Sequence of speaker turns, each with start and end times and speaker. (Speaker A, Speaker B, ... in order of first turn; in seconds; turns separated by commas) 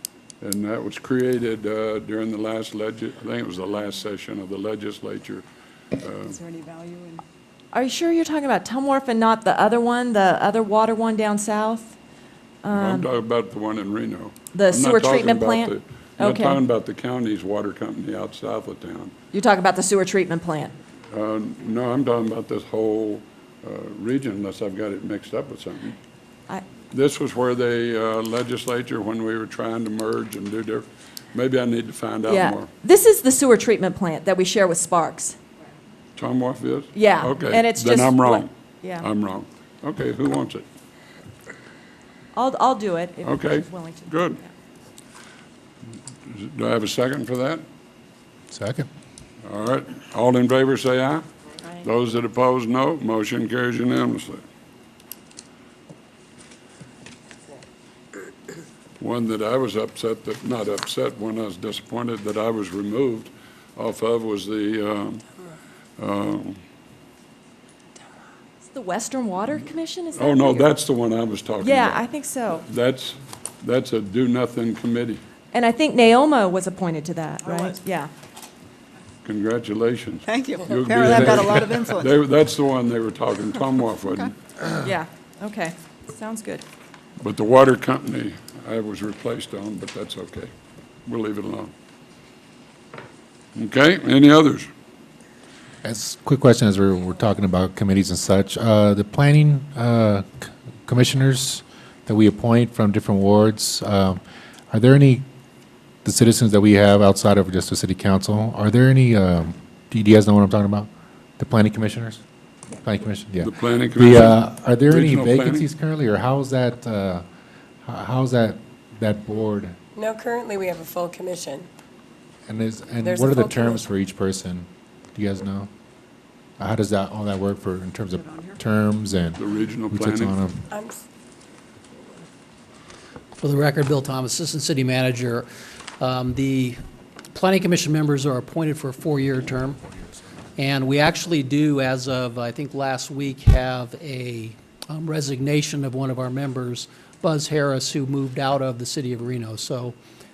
Speaker A: 0.4-5.5, Speaker A: 6.0-6.4, Speaker B: 6.3-7.2, Speaker C: 7.7-12.0, Speaker C: 12.6-13.1, Speaker A: 12.7-19.1, Speaker C: 14.5-16.6, Speaker C: 19.3-20.7, Speaker A: 21.1-26.0, Speaker A: 26.9-32.7, Speaker C: 32.3-35.4, Speaker A: 36.2-40.6, Speaker C: 36.9-39.1, Speaker C: 42.4-44.5, Speaker A: 43.2-44.4, Speaker A: 46.3-47.6, Speaker D: 48.5-48.9, Speaker A: 49.5-51.2, Speaker A: 51.8-54.4, Speaker A: 59.0-65.2, Speaker A: 66.0-66.6, Speaker C: 68.7-70.7, Speaker A: 70.2-72.1, Speaker C: 71.6-72.6, Speaker A: 72.7-75.2, Speaker C: 75.5-78.1, Speaker B: 77.4-77.8, Speaker A: 79.2-84.3, Speaker B: 80.3-82.1, Speaker B: 84.0-84.3, Speaker C: 84.8-86.6, Speaker A: 87.2-90.5, Speaker A: 91.1-91.7, Speaker A: 93.6-94.7, Speaker D: 95.8-104.2, Speaker D: 104.7-105.2, Speaker D: 106.0-112.2, Speaker D: 112.8-117.2, Speaker A: 113.4-115.7, Speaker D: 117.8-119.8, Speaker E: 120.0-121.7, Speaker D: 122.5-125.7, Speaker E: 123.0-123.9, Speaker D: 126.6-130.7, Speaker B: 128.1-128.6, Speaker A: 129.4-130.4, Speaker E: 130.7-131.0, Speaker F: 133.4-135.5, Speaker F: 136.0-136.8, Speaker F: 137.3-139.8, Speaker F: 140.6-150.0